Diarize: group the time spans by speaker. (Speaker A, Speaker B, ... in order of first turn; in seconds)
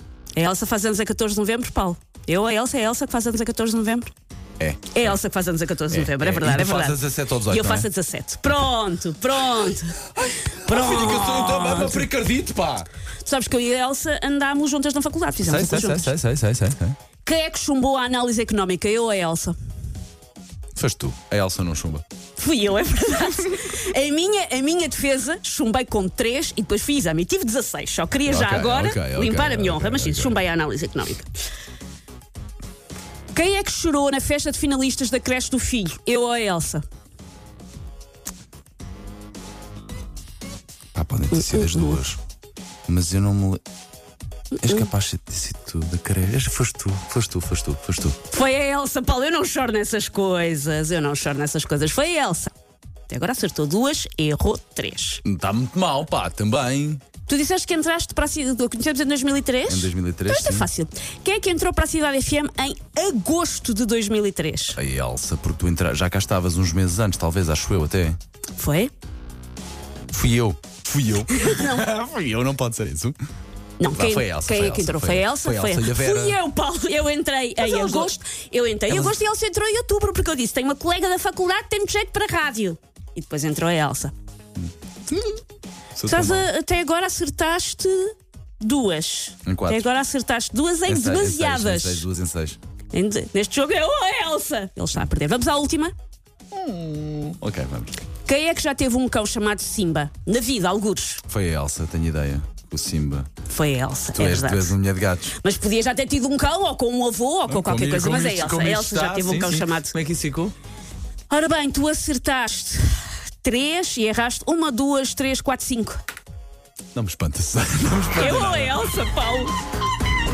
Speaker A: 0.4-4.1, 4.9-10.0, 10.6-12.1, 13.2-16.1, 17.2-19.6, 22.4-31.3, 33.3-36.8, 41.5-42.0, 48.3-52.5, 53.1-55.2, 57.3-64.8, 68.6-68.9, 71.4-71.8, 73.8-84.1, 86.0-92.1, 92.9-95.9, 98.2-101.2, 103.5-104.8, 105.4-110.0, 111.3-116.0, 118.2-119.5
Speaker B: 4.6-5.2, 5.9-7.9, 10.1-12.9, 15.4-17.0, 20.8-22.0, 28.2-30.4, 40.9-42.2, 42.9-43.6, 44.6-48.2, 55.2-57.0, 59.7-60.7, 64.7-68.2, 70.1-73.2, 73.9-76.4, 77.6-78.1, 78.9-79.2, 84.6-85.4, 86.0-86.5, 89.5-89.9, 90.9-92.6, 96.5-98.0, 101.3-103.3, 104.1-105.4, 107.5-110.5, 116.9-118.9